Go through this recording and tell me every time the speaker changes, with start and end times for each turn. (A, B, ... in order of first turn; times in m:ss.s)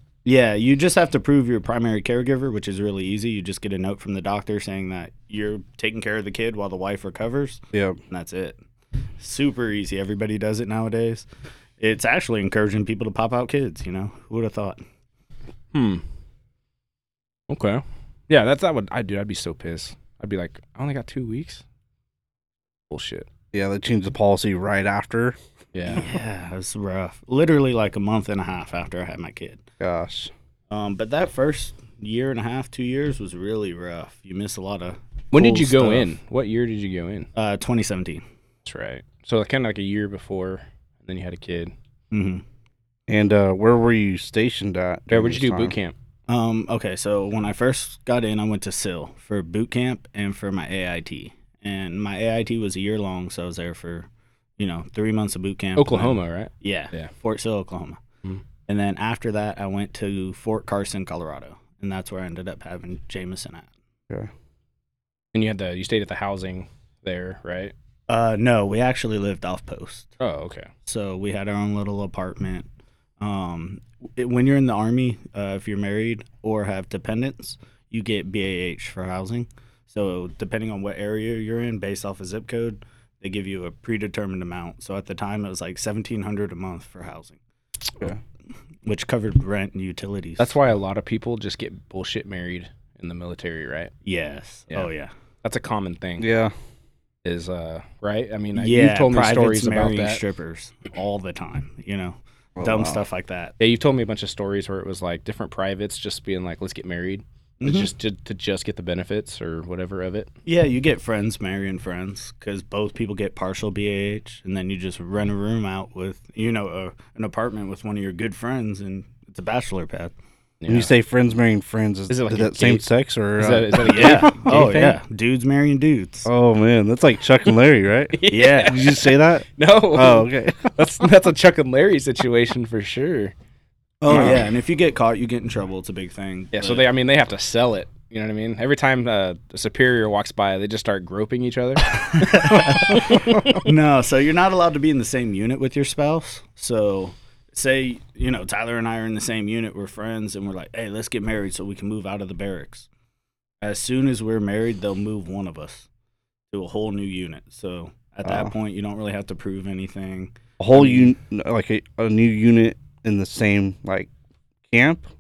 0:00.2-0:08.6 A
0:07.7-0:08.0 B
0:09.2-0:11.3 A
0:11.8-0:14.8 A
0:15.7-0:16.0 C
0:17.5-0:21.6 C
0:22.9-0:23.3 C
0:23.5-0:25.4 B
0:25.7-0:26.1 C
0:25.9-0:29.6 A
0:29.8-0:30.3 B
0:30.7-0:36.1 A
0:35.3-0:37.3 C
0:37.4-0:38.2 A
0:38.6-0:41.7 C
0:42.1-0:42.4 A
0:43.1-0:45.8 B
0:45.1-0:46.0 C
0:46.3-0:54.1 A
0:54.6-0:58.0 A
0:55.8-0:57.1 C
0:58.7-1:03.7 A
1:05.3-1:07.7 C
1:08.1-1:10.1 A
1:10.2-1:10.7 C
1:10.9-1:12.7 A
1:13.2-1:27.4 A
1:28.8-1:30.6 A
1:30.4-1:33.9 C
1:34.0-1:35.1 A
1:35.4-1:36.3 C
1:36.2-1:36.5 B
1:37.2-1:40.2 C
1:38.6-1:43.6 A
1:42.6-1:43.0 B
1:43.6-1:50.3 C
1:47.6-1:47.9 A
1:50.5-2:00.1 A
2:00.6-2:00.9 C
2:00.7-2:05.0 B
2:02.1-2:02.8 C
2:03.4-2:05.0 C
2:03.8-2:06.3 A
2:06.3-2:10.8 B
2:08.1-2:13.3 C
2:08.3-2:08.9 A
2:14.0-2:16.8 A
2:14.1-2:14.5 B
2:16.5-2:23.6 C
2:22.1-2:32.9 A
2:22.7-2:23.6 B
2:33.6-2:35.9 A
2:36.5-2:41.1 A
2:38.2-2:38.5 B
2:40.6-2:44.1 B
2:44.7-2:45.1 B